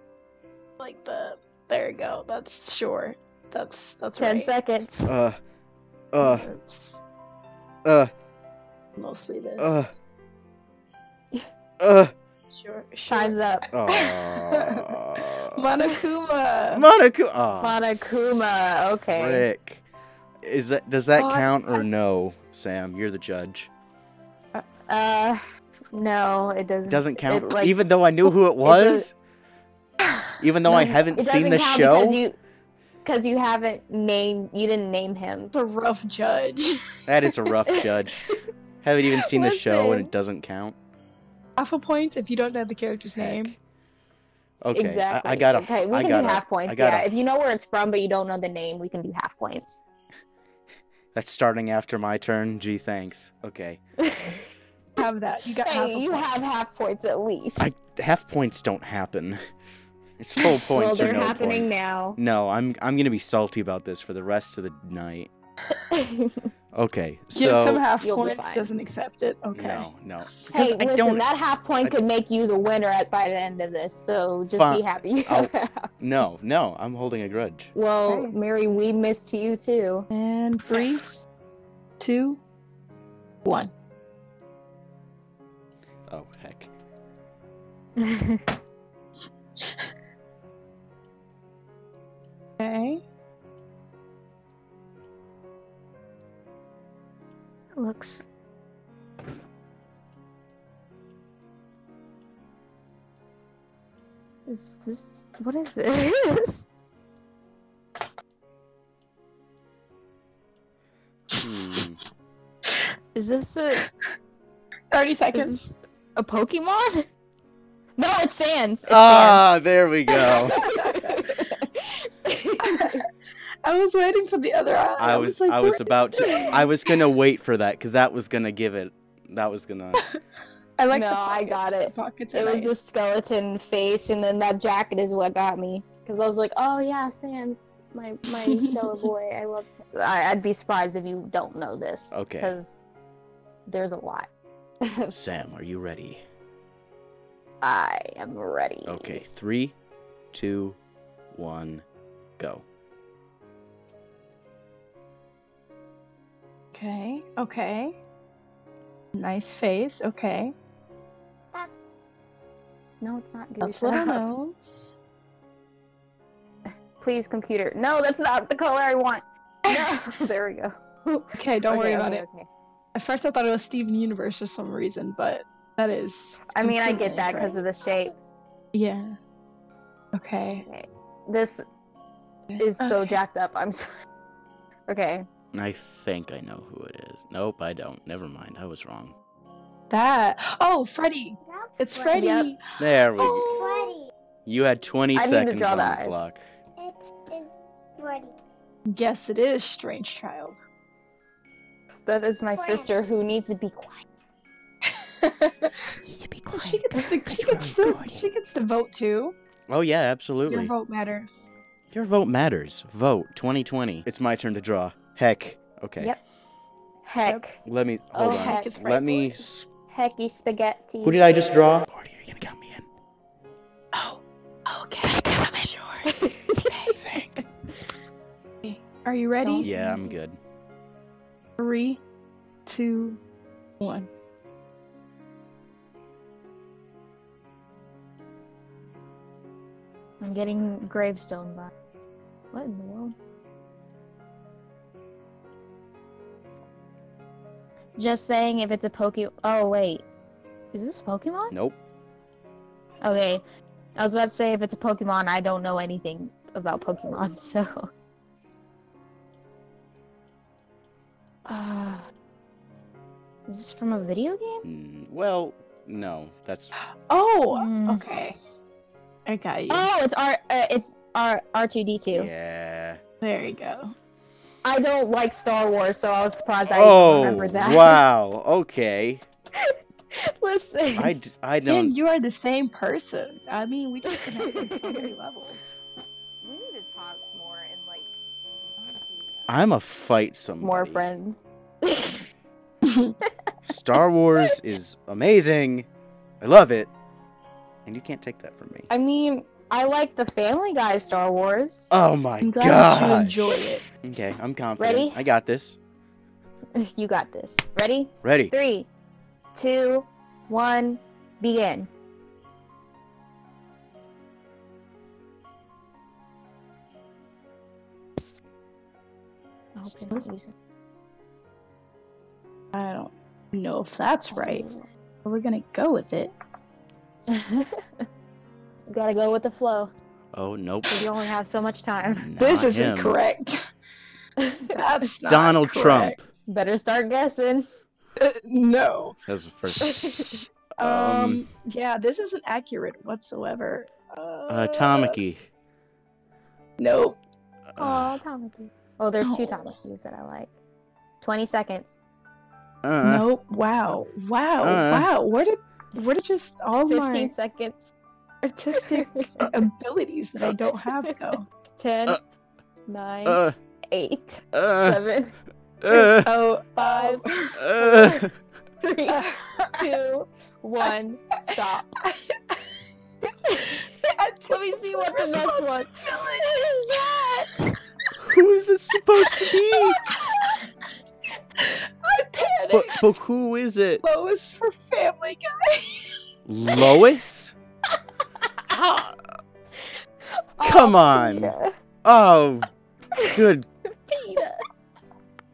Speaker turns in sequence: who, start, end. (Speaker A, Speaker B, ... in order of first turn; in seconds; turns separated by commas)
Speaker A: 0.8-4.5, Speaker B: 4.1-5.1, Speaker C: 5.1-5.4, Speaker C: 6.1-6.5, Speaker A: 6.2-7.0, Speaker C: 7.8-8.1, Speaker A: 9.0-9.9, Speaker C: 9.6-9.9, Speaker C: 11.8-12.1, Speaker A: 12.5-14.8, Speaker B: 13.1-13.7, Speaker C: 13.7-15.7, Speaker A: 15.5-16.9, Speaker C: 16.7-17.8, Speaker B: 17.6-19.4, Speaker C: 19.1-19.8, Speaker C: 20.4-23.7, Speaker A: 21.2-21.9, Speaker B: 24.9-25.4, Speaker B: 25.9-27.8, Speaker C: 26.9-29.1, Speaker B: 28.6-29.0, Speaker C: 30.4-32.2, Speaker B: 30.6-32.4, Speaker B: 33.0-35.5, Speaker A: 35.5-36.8, Speaker C: 37.1-38.2, Speaker C: 38.8-40.8, Speaker B: 39.2-40.1, Speaker A: 41.6-43.5, Speaker C: 43.2-43.6, Speaker C: 44.6-47.1, Speaker B: 44.8-49.8, Speaker C: 51.1-53.8, Speaker B: 54.0-54.5, Speaker A: 55.0-56.3, Speaker B: 55.6-57.7, Speaker C: 57.6-59.4, Speaker C: 60.2-65.3, Speaker B: 60.7-62.2, Speaker B: 65.8-66.5, Speaker C: 66.7-67.8, Speaker A: 67.3-69.9, Speaker B: 68.0-68.7, Speaker C: 69.5-71.2, Speaker B: 70.5-75.9, Speaker C: 74.5-77.7, Speaker B: 77.8-80.1, Speaker A: 78.1-78.3, Speaker A: 80.1-81.0, Speaker A: 82.0-82.4, Speaker A: 83.4-83.7, Speaker C: 86.1-86.7, Speaker B: 88.0-88.4, Speaker A: 92.6-93.0, Speaker B: 97.8-98.2, Speaker B: 104.5-106.7, Speaker A: 111.3-111.8, Speaker C: 111.4-112.0, Speaker B: 113.2-113.8, Speaker A: 114.9-115.6, Speaker B: 115.3-117.0, Speaker B: 118.0-119.5, Speaker C: 118.9-120.6, Speaker B: 120.2-123.0, Speaker A: 120.2-121.3, Speaker A: 122.6-123.0, Speaker A: 123.6-126.6, Speaker C: 125.0-130.1, Speaker B: 126.2-126.6, Speaker A: 130.8-132.8, Speaker B: 130.9-142.8, Speaker A: 138.3-139.1, Speaker C: 142.1-142.5, Speaker B: 143.7-144.3, Speaker B: 144.8-145.1, Speaker C: 145.1-146.2, Speaker B: 147.6-149.2, Speaker C: 148.8-149.8, Speaker C: 150.3-150.8, Speaker C: 151.3-151.8, Speaker C: 152.4-152.6, Speaker A: 156.8-158.0, Speaker A: 159.1-160.5, Speaker B: 163.0-164.3, Speaker A: 163.6-165.0, Speaker B: 166.7-172.5, Speaker A: 171.3-172.2, Speaker A: 172.9-177.6, Speaker B: 176.5-178.3, Speaker A: 178.7-179.2, Speaker A: 180.2-180.7, Speaker B: 180.7-181.6, Speaker A: 182.5-183.2, Speaker B: 182.6-183.8, Speaker B: 184.9-185.3, Speaker C: 185.5-189.1, Speaker A: 189.9-192.6, Speaker B: 192.1-192.5, Speaker C: 192.8-193.5, Speaker B: 193.4-193.9, Speaker C: 194.5-196.4, Speaker B: 195.1-196.2, Speaker A: 198.9-200.6, Speaker B: 202.1-204.0, Speaker A: 204.8-205.9, Speaker C: 206.0-208.2, Speaker A: 206.5-209.3, Speaker C: 209.7-210.7, Speaker A: 210.5-211.5, Speaker C: 211.9-216.1, Speaker B: 217.1-217.6, Speaker C: 217.6-219.7, Speaker B: 218.1-218.7, Speaker A: 218.3-219.4, Speaker B: 219.9-221.2, Speaker C: 221.0-222.9, Speaker A: 223.9-226.1, Speaker B: 225.0-227.4, Speaker C: 226.9-227.4, Speaker A: 228.6-229.7, Speaker B: 229.4-230.2, Speaker C: 229.6-230.4, Speaker A: 231.6-232.0, Speaker A: 232.7-233.2, Speaker A: 233.8-234.1, Speaker B: 240.2-241.7, Speaker B: 242.5-243.2, Speaker B: 248.0-250.0, Speaker B: 250.7-251.5, Speaker C: 251.5-251.8, Speaker B: 253.0-253.4, Speaker B: 254.0-257.9, Speaker B: 261.5-262.1, Speaker B: 263.5-264.6, Speaker C: 264.6-266.7, Speaker A: 266.8-268.4, Speaker B: 267.5-268.1, Speaker A: 269.2-269.9, Speaker B: 269.7-272.3, Speaker C: 272.1-273.0, Speaker A: 273.2-273.9, Speaker B: 274.6-278.1, Speaker C: 276.7-279.2, Speaker B: 279.6-281.2, Speaker C: 281.0-281.9, Speaker A: 281.7-285.8, Speaker B: 284.4-285.1, Speaker B: 286.4-288.2, Speaker A: 288.8-289.5, Speaker C: 289.5-291.1, Speaker B: 290.6-292.2, Speaker A: 292.9-293.2, Speaker C: 293.7-295.9, Speaker C: 296.4-296.9, Speaker C: 297.9-298.9, Speaker B: 298.9-301.9, Speaker C: 301.9-305.8, Speaker A: 302.4-303.8, Speaker B: 304.8-305.2, Speaker B: 306.8-308.9, Speaker C: 308.2-308.5, Speaker B: 309.6-311.9, Speaker B: 319.8-320.5, Speaker A: 322.7-324.7, Speaker B: 324.3-324.9, Speaker A: 325.2-326.3, Speaker B: 327.3-327.8, Speaker B: 328.9-329.9, Speaker C: 330.3-331.1, Speaker B: 330.9-332.3, Speaker C: 332.1-333.2, Speaker A: 332.4-333.6, Speaker B: 334.4-334.8, Speaker A: 334.7-336.2, Speaker C: 335.3-336.2, Speaker B: 336.5-337.7, Speaker A: 338.2-339.2, Speaker C: 339.3-340.0, Speaker A: 339.7-345.2, Speaker B: 339.9-340.4, Speaker C: 340.8-341.4, Speaker C: 344.5-345.5, Speaker A: 346.8-347.2, Speaker C: 347.7-348.2, Speaker B: 347.8-350.5, Speaker A: 349.2-349.7, Speaker B: 351.2-352.0, Speaker C: 352.8-353.2, Speaker A: 353.0-357.3, Speaker C: 354.6-355.1, Speaker B: 356.9-357.9, Speaker A: 358.4-361.5, Speaker B: 358.8-359.5, Speaker B: 361.8-362.2, Speaker B: 362.9-365.4, Speaker C: 363.2-363.6, Speaker C: 364.5-365.0, Speaker C: 365.8-366.3, Speaker A: 365.9-367.5, Speaker B: 366.8-368.2, Speaker C: 367.6-368.3, Speaker B: 368.8-371.9, Speaker A: 369.1-369.8, Speaker A: 372.0-372.8, Speaker B: 373.5-373.8, Speaker A: 374.0-377.6, Speaker B: 374.5-377.8, Speaker C: 378.2-380.0, Speaker A: 380.1-380.6, Speaker A: 381.6-383.0, Speaker C: 382.7-384.0, Speaker A: 384.0-386.2, Speaker C: 386.5-387.6, Speaker B: 387.9-388.5, Speaker C: 388.7-389.2, Speaker B: 390.6-391.7, Speaker C: 390.6-392.7, Speaker C: 393.3-393.7, Speaker B: 394.1-394.6